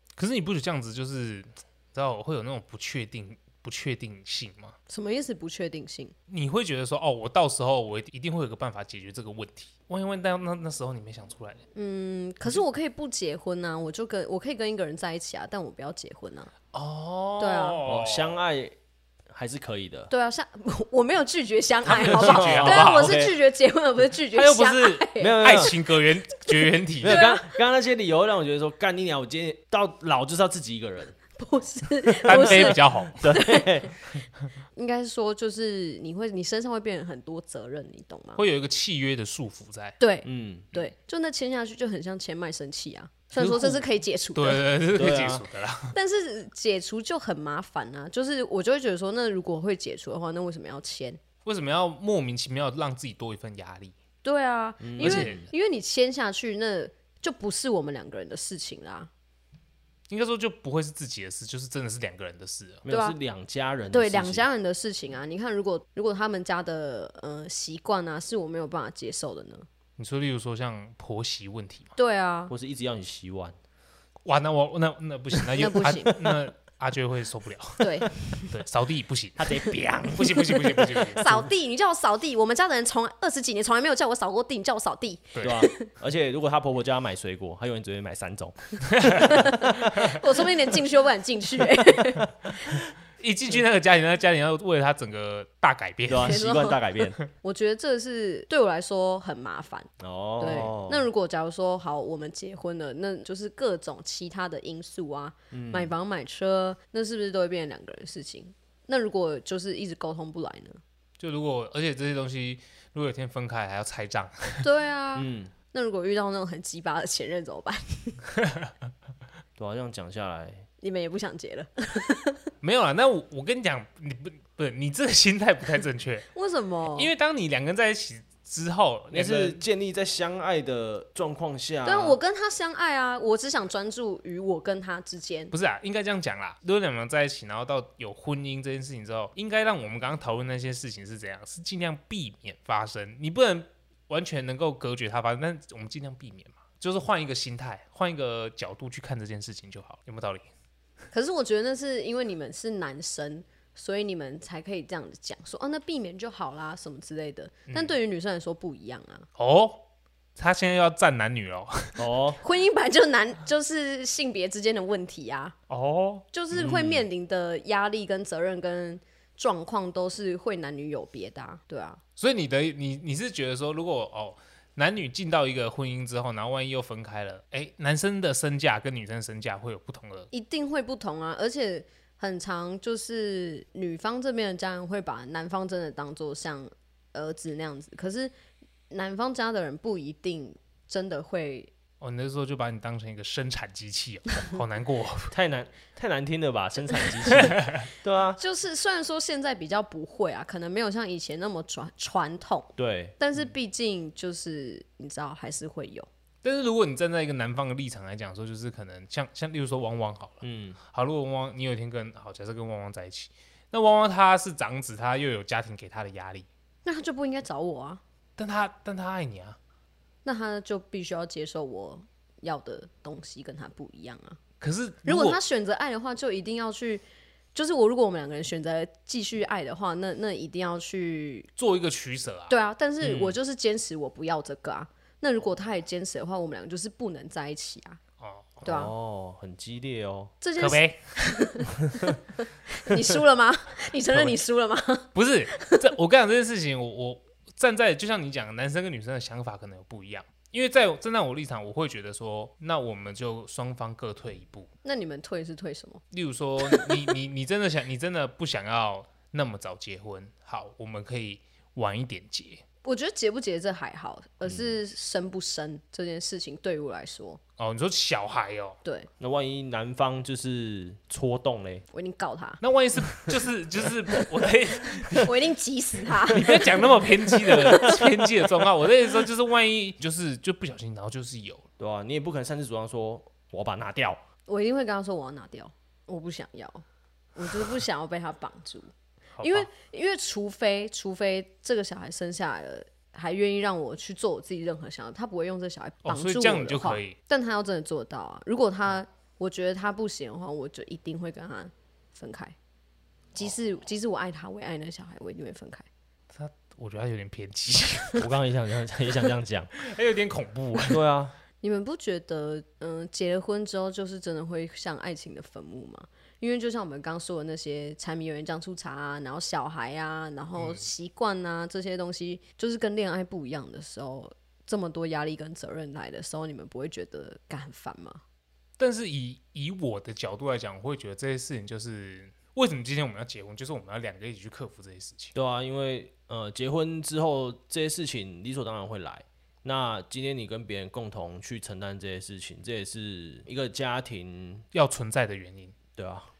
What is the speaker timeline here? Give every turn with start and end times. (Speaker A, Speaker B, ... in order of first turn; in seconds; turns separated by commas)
Speaker A: 0.2-4.8, Speaker B: 4.9-6.1, Speaker A: 6.3-11.6, Speaker B: 11.8-16.5, Speaker A: 16.7-18.4, Speaker B: 17.4-17.8, Speaker C: 17.8-18.8, Speaker C: 19.3-20.1, Speaker B: 20.1-25.7, Speaker A: 21.9-23.2, Speaker C: 22.1-23.4, Speaker A: 24.3-27.3, Speaker C: 25.2-25.7, Speaker C: 27.0-31.2, Speaker B: 27.0-27.6, Speaker B: 31.4-33.9, Speaker C: 32.2-33.9, Speaker A: 32.2-33.3, Speaker B: 34.8-38.4, Speaker A: 38.4-40.0, Speaker B: 40.0-44.6, Speaker C: 40.2-40.7, Speaker A: 43.4-43.8, Speaker A: 44.4-45.9, Speaker C: 45.0-45.5, Speaker B: 45.9-51.2, Speaker A: 51.5-54.0, Speaker B: 54.2-59.1, Speaker C: 54.8-55.5, Speaker A: 55.0-55.5, Speaker A: 60.1-62.8, Speaker C: 62.8-64.5, Speaker B: 62.9-63.2, Speaker B: 63.9-69.7, Speaker A: 70.0-71.9, Speaker B: 72.0-72.5, Speaker C: 72.5-73.6, Speaker A: 74.3-81.5, Speaker B: 75.5-76.3, Speaker B: 77.8-78.5, Speaker C: 79.4-80.5, Speaker B: 80.5-85.9, Speaker A: 85.3-85.7, Speaker C: 85.4-89.9, Speaker A: 88.9-90.2, Speaker B: 89.3-92.8, Speaker C: 92.1-92.5, Speaker A: 93.2-96.4, Speaker C: 96.1-97.2, Speaker B: 96.2-96.8, Speaker B: 97.3-110.8, Speaker C: 100.0-101.1, Speaker C: 105.5-106.0, Speaker A: 111.2-114.7, Speaker B: 114.6-118.2, Speaker C: 115.2-115.5, Speaker A: 118.4-118.7, Speaker C: 119.6-120.7, Speaker B: 120.8-122.4, Speaker A: 122.6-126.3, Speaker B: 126.3-127.1, Speaker A: 126.9-129.6, Speaker C: 129.1-132.2, Speaker B: 131.8-135.5, Speaker A: 135.5-150.5, Speaker B: 151.1-159.3, Speaker A: 157.7-158.0, Speaker A: 159.4-159.8, Speaker A: 160.4-162.0, Speaker C: 162.0-162.4, Speaker B: 162.4-165.6, Speaker A: 165.7-166.2, Speaker B: 166.3-172.0, Speaker C: 166.5-167.1, Speaker A: 172.2-180.3, Speaker B: 180.3-188.3, Speaker B: 188.9-191.7, Speaker A: 192.0-195.3, Speaker C: 195.3-198.4, Speaker A: 197.3-197.9, Speaker B: 198.4-206.1, Speaker C: 202.8-203.2, Speaker A: 206.4-216.5, Speaker C: 210.4-210.8, Speaker B: 216.8-218.0, Speaker A: 218.4-219.6, Speaker B: 220.2-224.4, Speaker A: 224.6-225.4, Speaker B: 225.1-227.0, Speaker B: 227.6-231.5, Speaker A: 231.6-233.3, Speaker B: 232.5-238.0, Speaker A: 238.2-238.6, Speaker B: 238.6-238.9, Speaker C: 238.6-240.3, Speaker B: 240.4-241.8, Speaker A: 240.6-241.7, Speaker C: 241.9-242.2, Speaker B: 242.7-245.9, Speaker A: 245.1-254.7, Speaker B: 254.8-256.0, Speaker A: 256.1-262.6, Speaker B: 256.6-257.0, Speaker B: 262.8-267.4, Speaker C: 264.5-264.8, Speaker A: 267.6-268.8, Speaker B: 268.8-269.1, Speaker C: 269.2-271.9, Speaker B: 271.9-272.6, Speaker A: 272.6-275.4, Speaker B: 275.2-276.9, Speaker A: 276.3-281.6, Speaker B: 277.7-278.0, Speaker C: 277.7-278.0, Speaker C: 281.8-284.2, Speaker B: 284.5-286.8, Speaker B: 287.4-288.9, Speaker A: 289.4-289.7, Speaker B: 289.4-302.6, Speaker A: 296.1-297.2, Speaker B: 303.4-305.9, Speaker A: 306.3-308.2, Speaker C: 308.2-309.7, Speaker A: 309.8-311.0, Speaker C: 310.9-311.4, Speaker B: 311.6-328.2, Speaker A: 320.6-320.9, Speaker A: 328.8-335.3, Speaker C: 335.3-344.7, Speaker A: 344.7-345.8, Speaker C: 346.0-346.3